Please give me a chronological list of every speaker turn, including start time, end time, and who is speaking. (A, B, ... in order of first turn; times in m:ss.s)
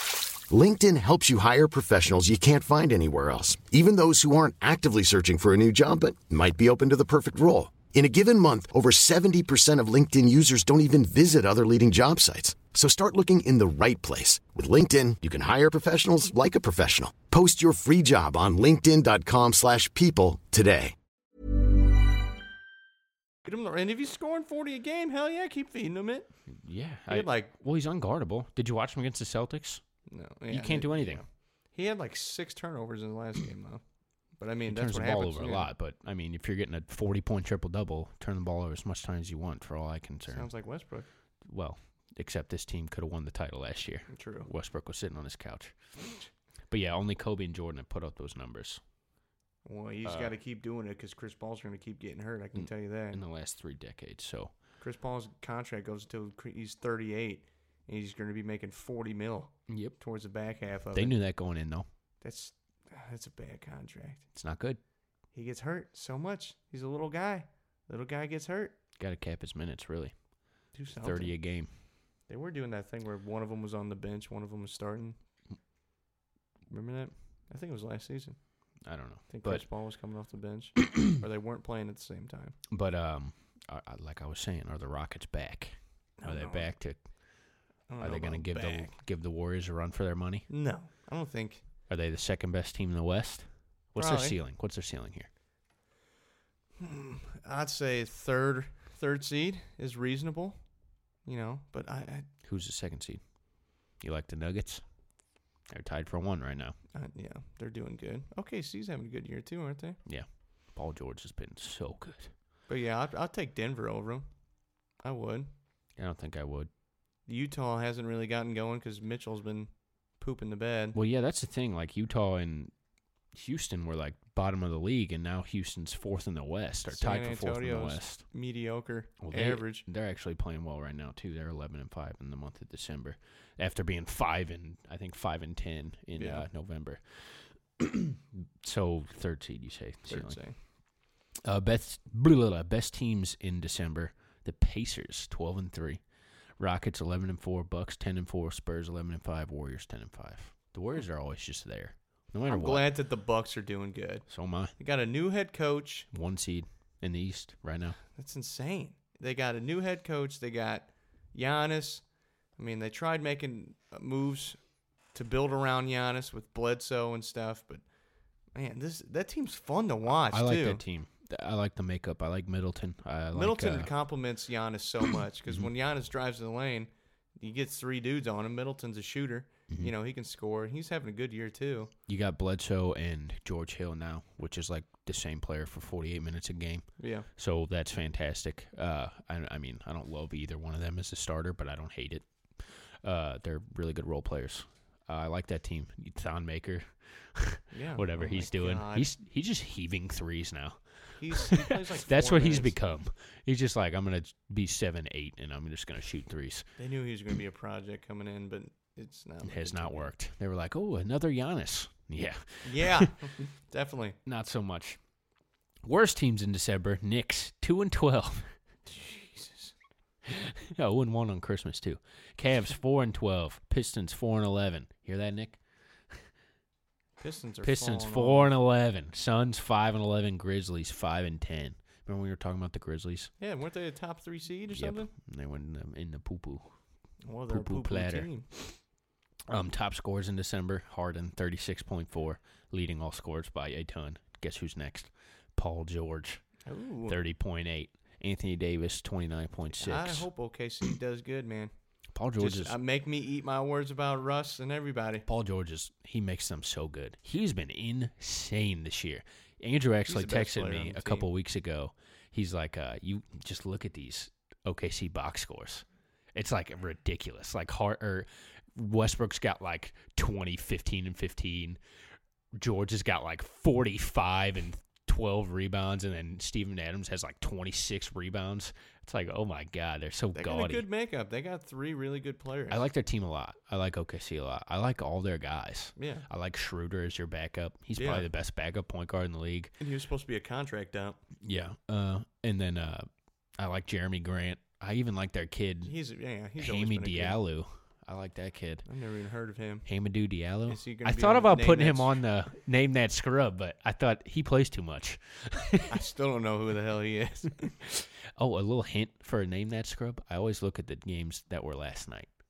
0:00.5-0:20.9 A
0:23.4-0:26.3 B
0:26.6-0:29.8 C
0:27.1-0:27.5 B
0:30.1-0:33.8 B
0:30.5-0:31.2 C
0:34.4-0:35.7 B
0:34.7-0:40.5 C
0:40.3-0:41.1 B
0:41.5-0:45.8 C
0:44.1-0:44.5 B
0:46.7-0:48.8 C
0:49.7-0:53.2 B
0:50.0-0:50.3 C
0:52.6-0:54.5 C
0:54.8-1:01.2 B
0:59.7-1:00.0 C
1:00.9-1:01.9 C
1:02.2-1:04.2 B
1:04.4-1:04.8 C
1:05.3-1:08.8 B
1:09.0-1:10.2 C
1:10.7-1:11.4 B
1:11.0-1:11.7 C
1:12.3-1:15.2 B
1:16.7-1:18.4 B
1:18.9-1:19.6 C
1:19.3-1:22.6 B
1:22.7-1:27.0 C
1:26.2-1:26.7 B
1:27.9-1:28.9 B
1:28.0-1:30.5 C
1:30.5-1:31.6 B
1:31.9-1:35.3 C
1:34.0-1:34.4 B
1:36.8-1:40.6 B
1:41.2-1:42.3 B
1:42.4-1:43.2 C
1:44.0-1:44.8 C
1:45.7-1:46.8 C
1:46.9-1:50.0 B
1:50.1-1:52.3 C
1:52.7-1:54.3 B
1:55.0-1:55.5 B
1:56.0-1:56.7 C
1:57.3-2:01.0 B
2:00.9-2:02.7 C
2:03.3-2:08.3 C
2:06.9-2:09.8 B
2:09.2-2:20.4 C
2:16.2-2:16.4 B
2:20.1-2:20.6 B
2:21.4-2:26.0 C
2:26.6-2:32.9 C
2:32.5-2:34.3 B
2:34.3-2:34.7 C
2:34.8-2:36.1 B
2:36.1-2:38.0 C
2:38.2-2:42.0 B
2:42.6-2:44.6 B
2:45.1-2:47.8 B
2:48.5-2:50.8 B
2:50.3-2:53.9 C
2:53.3-3:01.9 B
3:02.1-3:20.8 C
3:07.0-3:07.3 B
3:17.7-3:19.1 B
3:21.2-3:22.8 B
3:21.3-3:26.7 C
3:26.8-3:30.1 B
3:29.4-3:33.1 C
3:32.6-3:34.2 B
3:34.3-3:35.0 C
3:35.8-3:38.5 C
3:38.9-3:39.7 B
3:40.3-3:45.6 C
3:47.2-3:48.5 B
3:47.6-3:53.3 C
3:53.4-3:55.1 B
3:54.8-3:56.7 C
3:57.2-3:58.5 B
3:57.5-3:58.8 C
3:59.5-4:06.4 C
4:06.7-4:07.2 B
4:07.1-4:10.3 C
4:09.8-4:11.7 B
4:12.2-4:12.8 C
4:12.4-4:15.2 B
4:15.3-4:31.8 C
4:20.1-4:21.3 B
4:32.6-4:40.8 C
4:40.4-4:42.8 B
4:42.7-4:49.7 C
4:46.0-4:46.3 B
4:48.0-4:48.3 B
4:49.8-4:51.2 B
4:51.4-4:53.1 C
4:53.6-4:56.0 C
4:55.8-4:57.4 B
4:56.6-4:58.9 C
4:58.9-4:59.8 B
4:59.9-5:06.0 C
5:00.7-5:02.1 B
5:05.9-5:07.7 B
5:07.8-5:12.3 C